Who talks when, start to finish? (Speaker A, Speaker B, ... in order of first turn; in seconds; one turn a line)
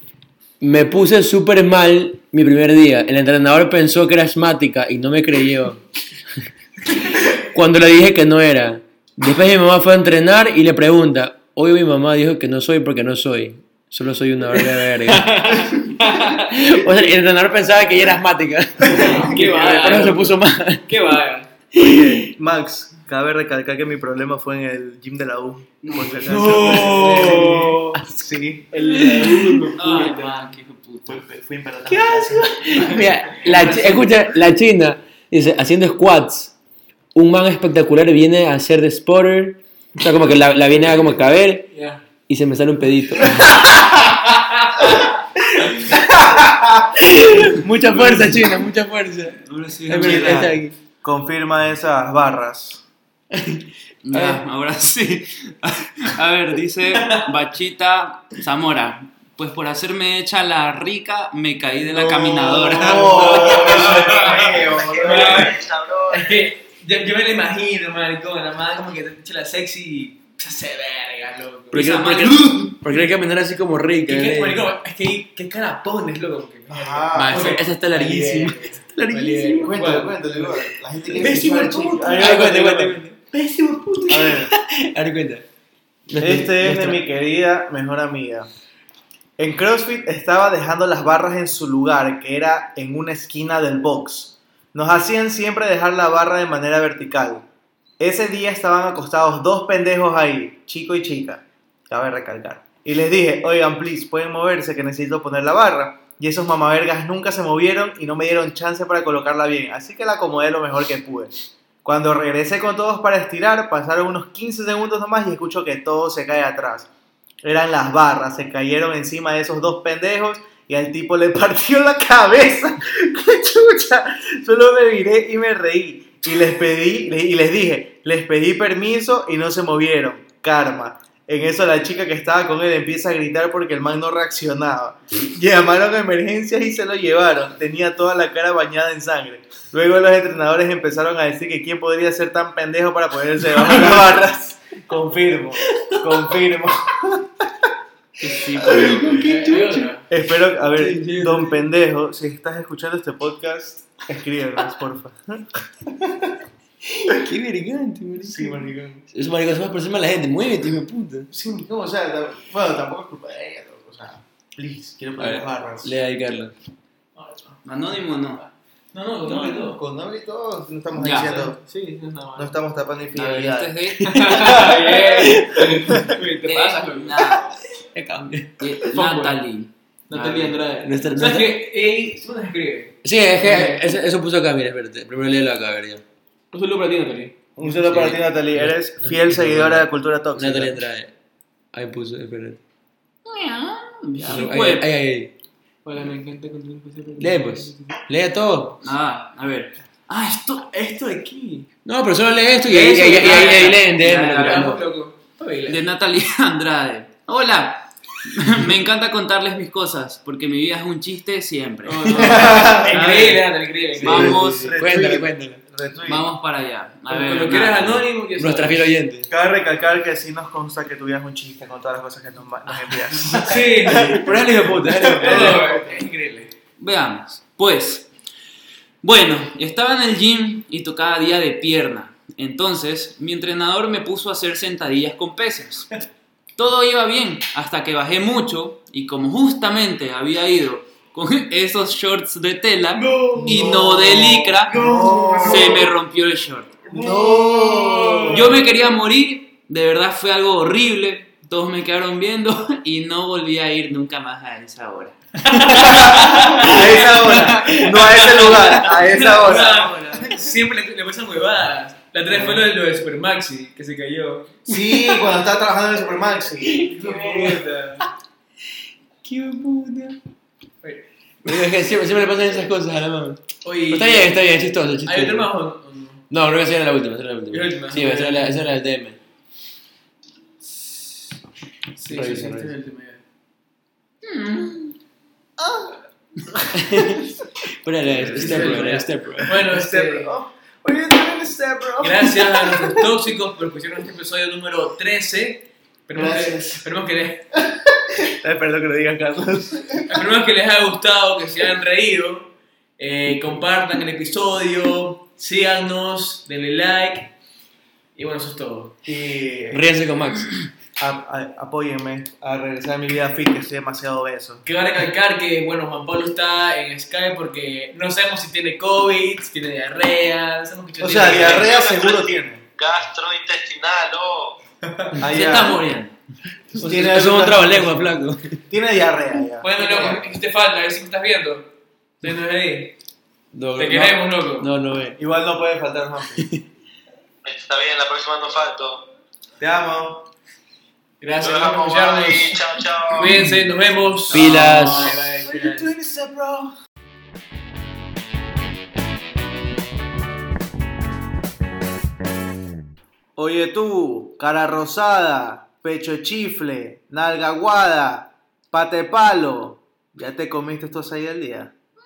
Speaker A: 0.6-5.8
Speaker A: 7.1-20.8
Speaker B: 15.0-16.9
Speaker B: 18.9-21.5
Speaker A: 21.7-22.3
Speaker C: 21.8-28.8
Speaker D: 25.8-26.9
Speaker B: 26.2-28.0
Speaker A: 26.3-29.7
Speaker B: 28.7-30.5
Speaker D: 29.8-31.2
Speaker C: 31.1-32.9
Speaker A: 31.9-36.5
Speaker D: 33.5-33.8
Speaker A: 37.1-41.7
Speaker B: 41.7-42.0
Speaker A: 42.3-43.5
Speaker B: 43.9-45.0
Speaker A: 45.7-46.2
Speaker C: 45.9-47.1
Speaker A: 47.0-50.8
Speaker C: 47.9-48.4
Speaker D: 49.5-50.5
Speaker C: 50.0-52.8
Speaker A: 53.3-54.4
Speaker D: 54.0-63.7
Speaker B: 56.9-57.2
Speaker B: 61.9-73.0
Speaker C: 62.7-65.5
Speaker E: 63.4-66.4
Speaker A: 71.7-74.7
Speaker D: 71.7-72.7
Speaker B: 74.0-82.5
Speaker C: 76.7-77.6
Speaker A: 77.1-80.1
Speaker C: 79.6-83.0
Speaker A: 81.1-81.5
Speaker A: 82.0-85.5
Speaker C: 84.1-84.5
Speaker A: 86.1-87.0
Speaker C: 86.2-88.5
Speaker C: 89.4-97.4
Speaker C: 98.0-116.9
Speaker C: 117.4-147.7
Speaker D: 148.2-149.3
Speaker C: 148.6-149.1
Speaker A: 148.6-149.9
Speaker B: 149.1-150.1
Speaker C: 150.1-156.4
Speaker A: 150.7-151.6
Speaker A: 156.8-161.3
Speaker C: 158.2-159.1
Speaker C: 161.3-165.9
Speaker A: 165.2-166.5
Speaker B: 167.2-167.6
Speaker D: 167.6-168.4
Speaker B: 168.4-169.8
Speaker C: 169.3-171.6
Speaker D: 170.9-171.4
Speaker B: 171.0-172.5
Speaker C: 172.3-173.8
Speaker D: 173.1-174.7
Speaker A: 174.0-176.2
Speaker B: 174.0-177.2
Speaker C: 174.5-174.8
Speaker D: 176.4-177.5
Speaker A: 177.9-178.8
Speaker D: 178.6-179.7
Speaker B: 178.9-179.4
Speaker B: 180.1-183.8
Speaker A: 180.1-181.6
Speaker A: 183.0-186.0
Speaker B: 186.5-187.4
Speaker C: 187.6-190.8
Speaker A: 187.6-191.1
Speaker A: 191.7-192.6
Speaker D: 193.2-194.9
Speaker A: 194.2-195.3
Speaker B: 195.8-197.9
Speaker A: 197.2-198.8
Speaker D: 198.8-200.5
Speaker B: 200.4-201.7
Speaker A: 201.8-204.8
Speaker B: 202.7-203.8
Speaker D: 202.9-204.8
Speaker B: 204.4-205.8
Speaker D: 205.7-214.8
Speaker B: 211.8-214.4
Speaker A: 212.0-212.5
Speaker C: 212.2-213.0
Speaker A: 214.0-215.6
Speaker C: 214.4-216.2
Speaker D: 216.0-218.0
Speaker B: 217.1-218.9
Speaker A: 218.4-219.3
Speaker C: 219.3-225.7
Speaker B: 223.2-224.2
Speaker A: 223.5-225.7
Speaker B: 225.1-226.5
Speaker D: 226.8-228.1
Speaker D: 229.0-235.9
Speaker D: 236.6-246.8
Speaker B: 242.9-243.8
Speaker C: 243.3-245.9
Speaker B: 244.7-245.7
Speaker C: 246.9-248.4
Speaker A: 246.9-248.4
Speaker B: 247.0-248.5
Speaker D: 248.3-256.7
Speaker B: 255.4-264.7
Speaker C: 255.8-260.1
Speaker D: 258.2-258.5
Speaker C: 262.3-262.6
Speaker C: 264.6-266.9
Speaker A: 266.6-267.6
Speaker B: 266.8-268.1
Speaker A: 269.2-270.2
Speaker A: 271.4-275.5
Speaker B: 273.6-274.4
Speaker B: 275.0-276.2
Speaker A: 276.3-279.2
Speaker B: 277.5-278.7
Speaker B: 281.9-283.2
Speaker A: 282.1-282.7
Speaker D: 284.2-285.0
Speaker C: 285.6-286.0
Speaker A: 286.7-289.6
Speaker D: 288.1-288.9
Speaker B: 288.4-290.3
Speaker C: 289.6-292.7
Speaker B: 292.0-297.5
Speaker C: 296.1-296.9
Speaker C: 297.5-300.2
Speaker B: 300.1-307.3
Speaker B: 308.1-308.9
Speaker C: 309.1-309.8
Speaker A: 309.7-310.5
Speaker C: 311.0-314.6
Speaker B: 314.6-321.7
Speaker C: 321.0-322.6
Speaker E: 321.3-324.6
Speaker C: 325.2-325.8
Speaker D: 325.2-326.1
Speaker A: 326.7-328.6
Speaker C: 326.8-328.1
Speaker C: 328.7-330.3
Speaker B: 329.6-331.7
Speaker B: 332.2-332.9
Speaker A: 333.5-335.2
Speaker B: 333.8-334.7
Speaker C: 335.2-336.4
Speaker A: 336.4-336.6
Speaker E: 337.4-339.1
Speaker C: 339.6-340.3
Speaker B: 341.2-345.9
Speaker E: 341.4-343.4
Speaker D: 343.3-343.6
Speaker A: 344.3-345.2
Speaker C: 345.0-346.7
Speaker C: 353.4-361.7